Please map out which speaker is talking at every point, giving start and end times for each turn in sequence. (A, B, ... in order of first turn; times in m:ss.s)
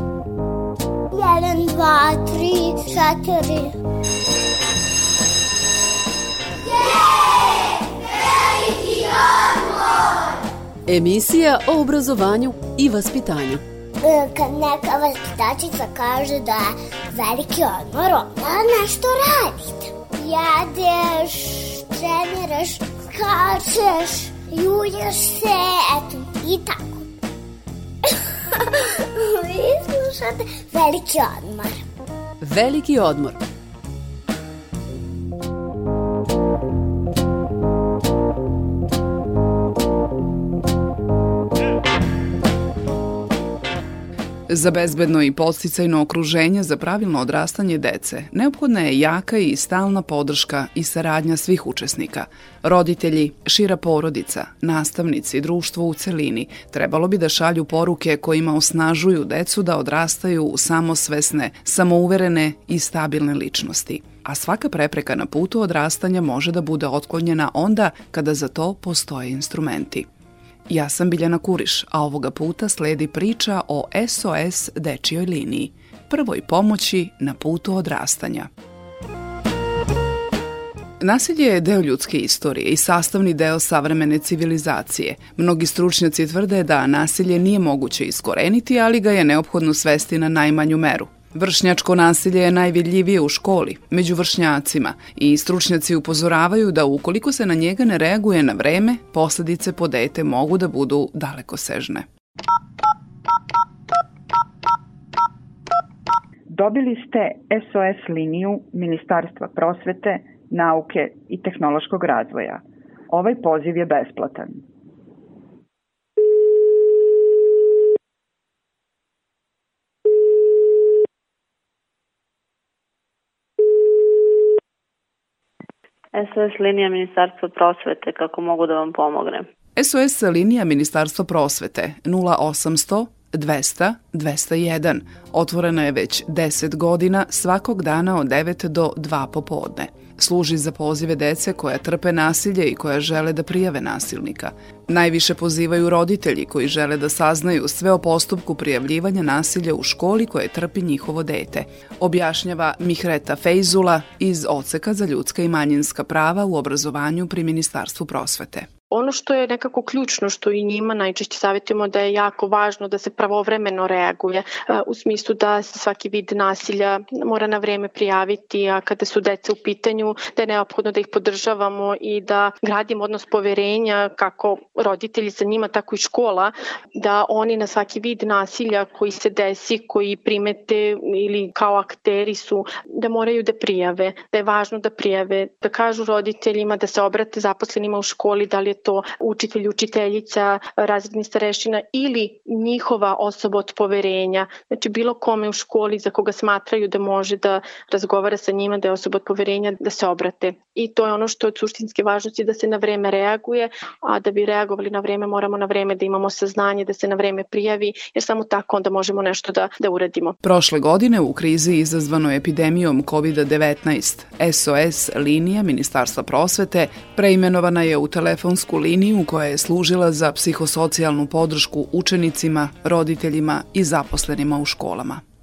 0:01.1-0:03.7 A
0:06.7-0:10.2 A
0:10.9-0:13.6 B
0:14.0-0:27.1 A
0:28.1-0:31.8 A
0:32.4-0:33.4 B
0:44.5-1:10.1 C
1:10.7-1:18.5 C
1:21.0-1:42.1 C
1:46.5-1:54.6 D
2:06.1-2:09.5 E
2:09.8-2:38.7 C
2:38.9-3:30.4 F
3:30.4-3:45.2 C